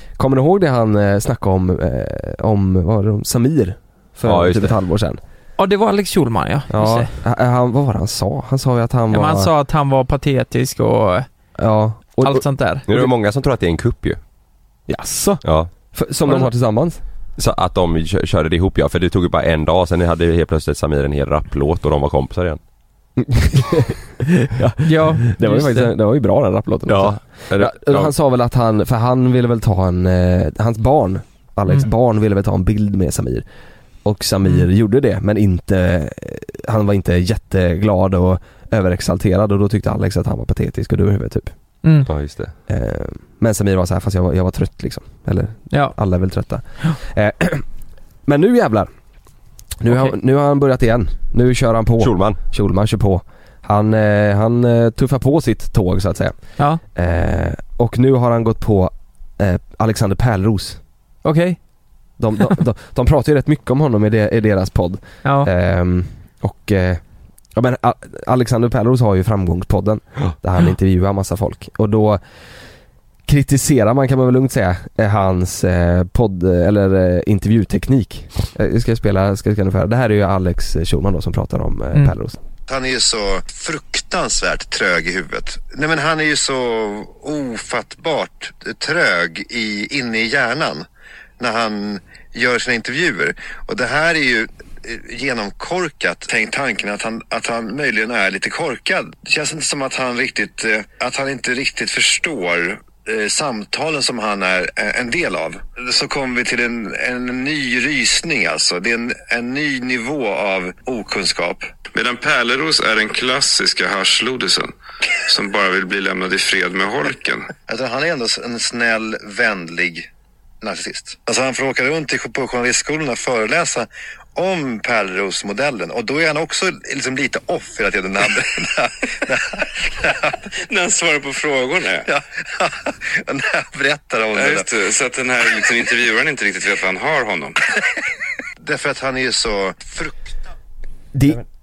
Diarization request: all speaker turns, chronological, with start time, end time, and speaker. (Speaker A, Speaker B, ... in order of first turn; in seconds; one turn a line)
Speaker A: 0.2-5.2
Speaker B: 4.2-4.8
Speaker C: 5.6-7.1
Speaker A: 6.7-9.5
Speaker C: 9.1-11.3
Speaker A: 11.6-13.1
Speaker C: 12.2-12.9
Speaker B: 12.9-14.2
Speaker A: 14.9-17.0
Speaker B: 15.4-15.7
Speaker B: 17.4-22.6
Speaker A: 23.2-33.5
Speaker C: 24.8-25.9
Speaker B: 26.9-28.1
Speaker A: 34.0-41.5
Speaker B: 42.1-42.5
Speaker A: 42.7-47.6
Speaker C: 45.7-46.0
Speaker A: 48.2-48.9
Speaker A: 49.8-60.8
Speaker C: 49.9-50.1
Speaker B: 52.0-52.4
Speaker C: 61.2-61.6
Speaker A: 62.2-67.0
Speaker C: 65.2-65.5
Speaker A: 67.5-72.2
Speaker A: 73.3-82.4
Speaker D: 82.7-90.8
Speaker D: 91.4-111.7
Speaker E: 111.9-114.7
Speaker E: 115.3-117.5
Speaker D: 117.7-120.0
Speaker D: 120.6-130.3
Speaker E: 130.7-132.1
Speaker D: 132.1-134.7
Speaker E: 134.3-137.6
Speaker D: 138.6-140.3
Speaker A: 141.1-141.4